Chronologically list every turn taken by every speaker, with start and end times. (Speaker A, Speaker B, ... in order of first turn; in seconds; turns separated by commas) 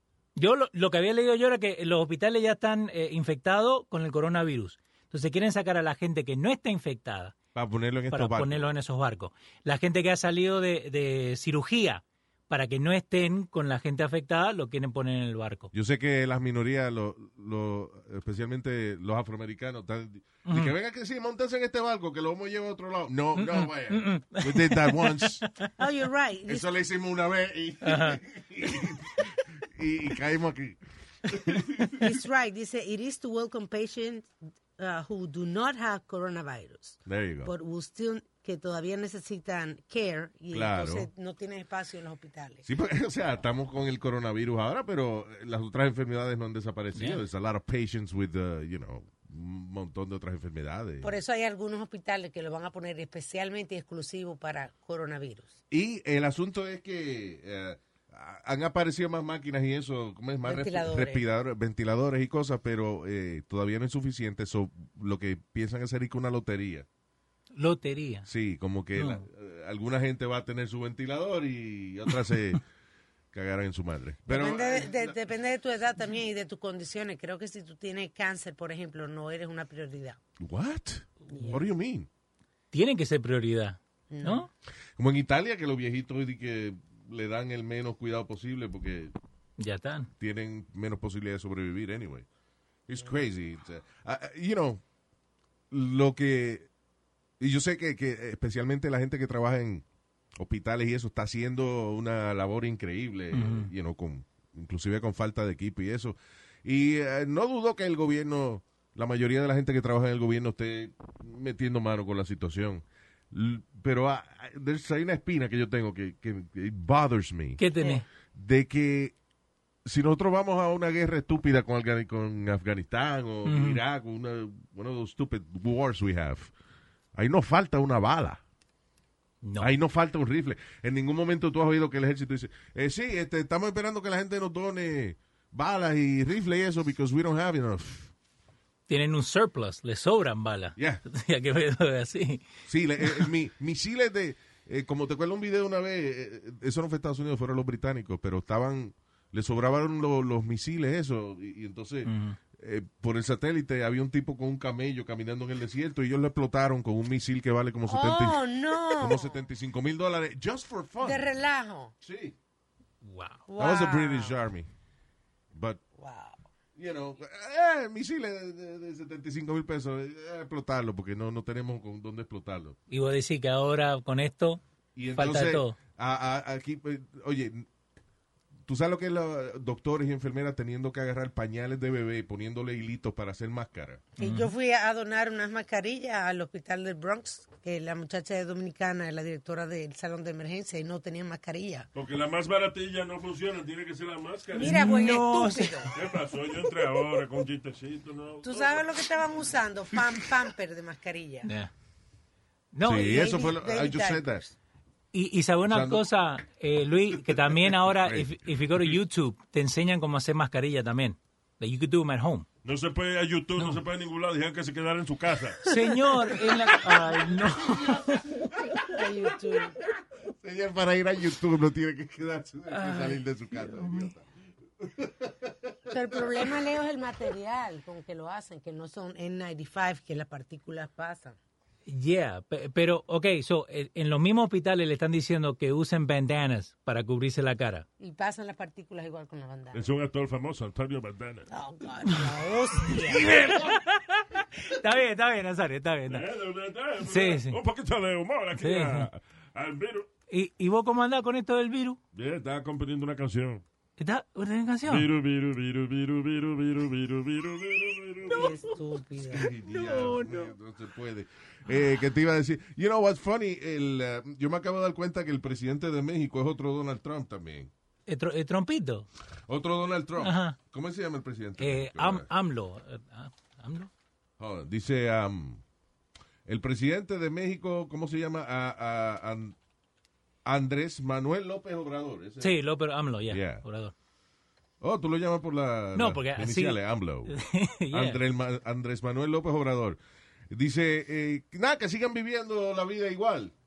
Speaker A: 0.4-7.4, Speaker B: 7.5-8.7, Speaker A: 8.1-15.7, Speaker B: 15.7-25.4, Speaker A: 20.4-20.7, Speaker A: 23.4-25.7, Speaker C: 25.8-26.7, Speaker B: 26.5-32.1, Speaker A: 27.8-28.2, Speaker C: 31.9-42.6, Speaker B: 37.0-37.5, Speaker B: 40.5-41.1, Speaker B: 42.6-51.2, Speaker A: 46.9-47.2, Speaker C: 51.0-55.6, Speaker B: 55.7-66.9, Speaker C: 60.4-61.2, Speaker A: 67.6-68.3, Speaker B: 68.2-72.6, Speaker A: 69.0-69.2, Speaker B: 73.3-75.1, Speaker C: 74.2-80.2, Speaker B: 80.4-82.1, Speaker C: 81.2-81.6, Speaker A: 82.7-84.5, Speaker C: 84.1-84.5, Speaker B: 85.0-89.1, Speaker A: 89.6-90.1, Speaker B: 90.2-92.2, Speaker B: 92.9-94.8, Speaker B: 95.7-96.7, Speaker B: 97.4-99.8, Speaker B: 100.4-117.6, Speaker A: 103.3-103.7, Speaker A: 117.6-118.0, Speaker B: 118.3-119.1, Speaker B: 119.8-126.5, Speaker A: 123.4-123.8, Speaker B: 127.1-128.4, Speaker A: 129.4-129.7, Speaker B: 129.6-138.1, Speaker A: 138.9-142.5, Speaker B: 140.8-141.0, Speaker B: 142.7-161.2, Speaker A: 152.1-152.4, Speaker C: 157.9-159.4, Speaker C: 161.0-161.9, Speaker B: 162.0-162.4, Speaker A: 163.0-163.4, Speaker C: 163.5-164.3, Speaker B: 163.6-164.7, Speaker B: 165.5-165.8, Speaker C: 166.0-166.4, Speaker B: 166.8-172.8, Speaker A: 172.9-174.6, Speaker B: 174.9-177.7, Speaker A: 175.2-175.8, Speaker B: 178.7-184.0, Speaker C: 184.2-191.9, Speaker A: 184.2-184.5, Speaker D: 191.9-194.9, Speaker C: 194.5-195.9, Speaker A: 194.6-195.9, Speaker D: 195.9-198.8, Speaker C: 198.4-201.5, Speaker A: 201.4-201.7, Speaker A: 202.7-203.3, Speaker B: 202.8-204.4, Speaker C: 203.0-204.5, Speaker A: 205.1-212.4, Speaker B: 205.6-206.1, Speaker B: 207.3-208.3, Speaker D: 212.6-215.7, Speaker A: 213.6-213.8, Speaker A: 215.6-218.4, Speaker B: 217.6-218.4, Speaker C: 218.9-219.8, Speaker B: 220.3-224.2, Speaker A: 222.7-224.1, Speaker B: 224.8-226.5, Speaker C: 225.9-231.4, Speaker A: 231.9-237.9, Speaker C: 238.0-239.9, Speaker D: 239.7-241.4, Speaker C: 241.5-243.3, Speaker A: 242.9-246.3, Speaker D: 246.1-250.1, Speaker A: 247.0-247.6, Speaker A: 248.6-249.1, Speaker A: 250.3-252.0, Speaker D: 252.1-253.6, Speaker A: 254.0-255.1, Speaker D: 254.9-258.5, Speaker C: 258.3-259.5, Speaker B: 259.3-267.7, Speaker A: 259.6-260.5, Speaker A: 268.1-269.1, Speaker B: 269.5-272.3, Speaker A: 270.2-270.6, Speaker A: 271.6-273.9, Speaker B: 274.4-275.6, Speaker B: 276.5-279.6, Speaker B: 280.4-282.6, Speaker A: 282.4-283.9, Speaker B: 283.3-283.6, Speaker B: 284.8-287.3, Speaker A: 285.9-288.2, Speaker B: 287.9-293.5